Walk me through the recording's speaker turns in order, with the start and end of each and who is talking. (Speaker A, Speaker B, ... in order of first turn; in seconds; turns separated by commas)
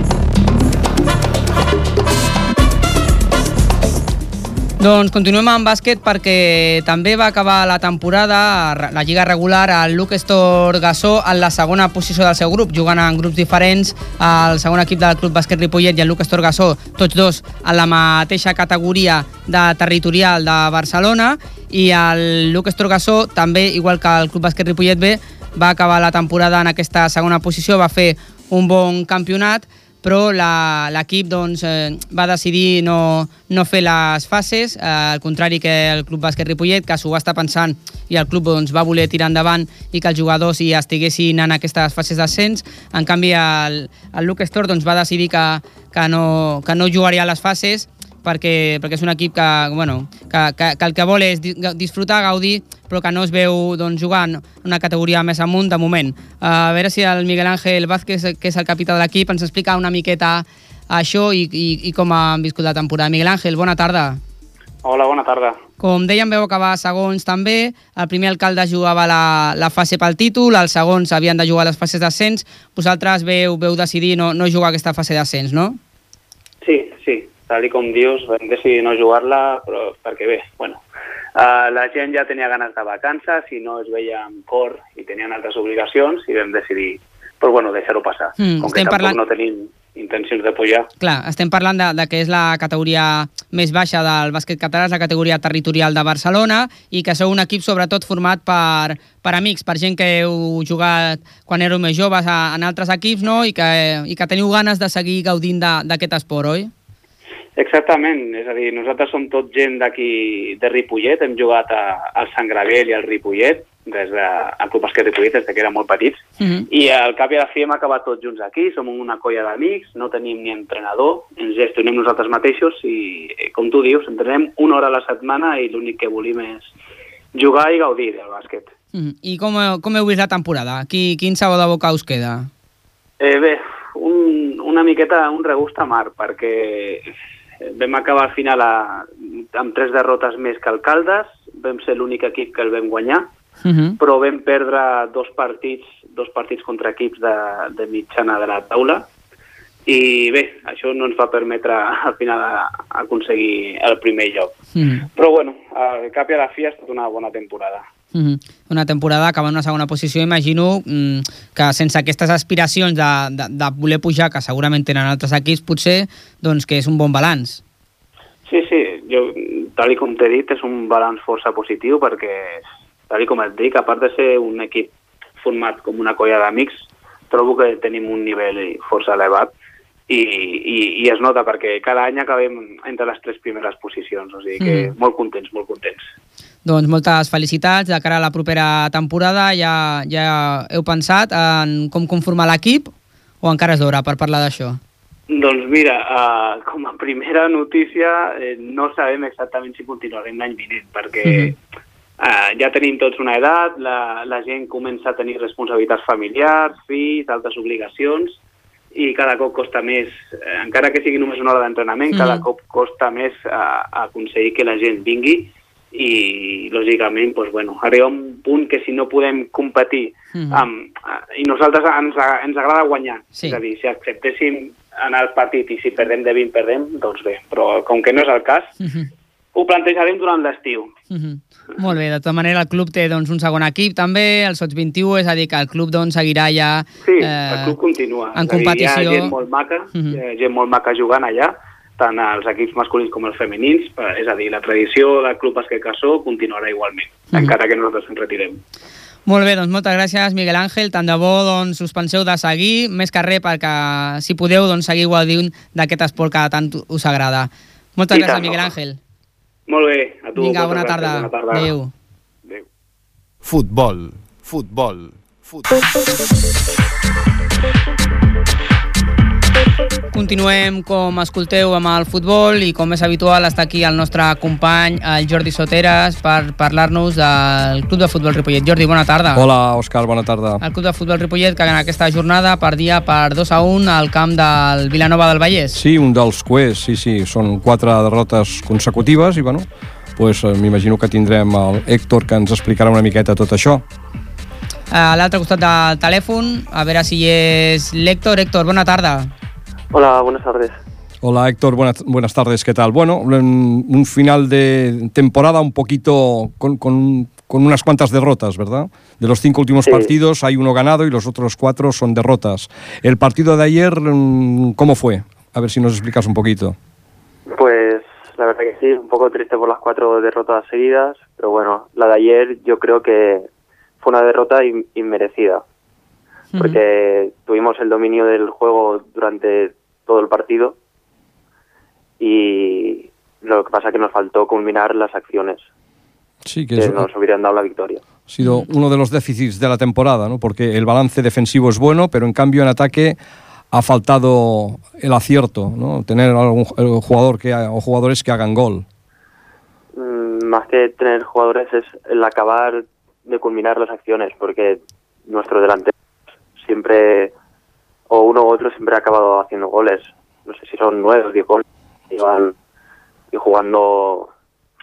Speaker A: 4.8-64.2, Speaker B: 64.8-65.6, Speaker A: 65.8-75.8, Speaker B: 76.6-80.8, Speaker B: 81.3-90.9, Speaker A: 88.4-89.2, Speaker A: 91.0-106.7, Speaker B: 107.6-126.7, Speaker A: 116.4-116.7, Speaker B: 127.3-128.7, Speaker A: 128.9-132.5, Speaker B: 133.2-137.1, Speaker B: 137.6-143.3, Speaker A: 143.6-144.0, Speaker B: 144.0-149.1, Speaker B: 149.8-154.5, Speaker A: 154.8-155.1, Speaker B: 155.1-157.8, Speaker A: 158.1-167.6, Speaker B: 168.5-179.5, Speaker B: 180.1-186.1, Speaker A: 184.6-184.9, Speaker A: 186.6-194.8, Speaker B: 195.3-201.6, Speaker A: 201.2-201.5, Speaker B: 202.2-208.4, Speaker B: 208.9-228.7, Speaker A: 212.1-212.4, Speaker A: 220.3-220.7, Speaker A: 228.8-229.1, Speaker B: 229.5-230.9, Speaker A: 231.1-237.8, Speaker B: 237.0-248.6, Speaker A: 238.3-239.3, Speaker A: 249.3-259.0, Speaker B: 258.1-258.7, Speaker B: 259.7-261.7, Speaker A: 260.4-261.9, Speaker C: 263.4-265.7, Speaker A: 270.1-279.4, Speaker D: 279.3-280.6, Speaker A: 280.6-285.8, Speaker D: 285.7-293.8, Speaker A: 294.9-299.3, Speaker E: 299.9-300.8, Speaker D: 301.2-316.8, Speaker E: 309.8-310.1, Speaker E: 317.5-323.5, Speaker E: 324.0-325.6, Speaker E: 326.6-330.8, Speaker E: 332.2-335.6, Speaker D: 336.4-337.0, Speaker E: 336.8-338.0, Speaker D: 338.3-343.2, Speaker D: 343.7-348.8, Speaker E: 349.9-355.9, Speaker E: 356.6-357.3, Speaker E: 358.1-362.5, Speaker E: 363.3-364.3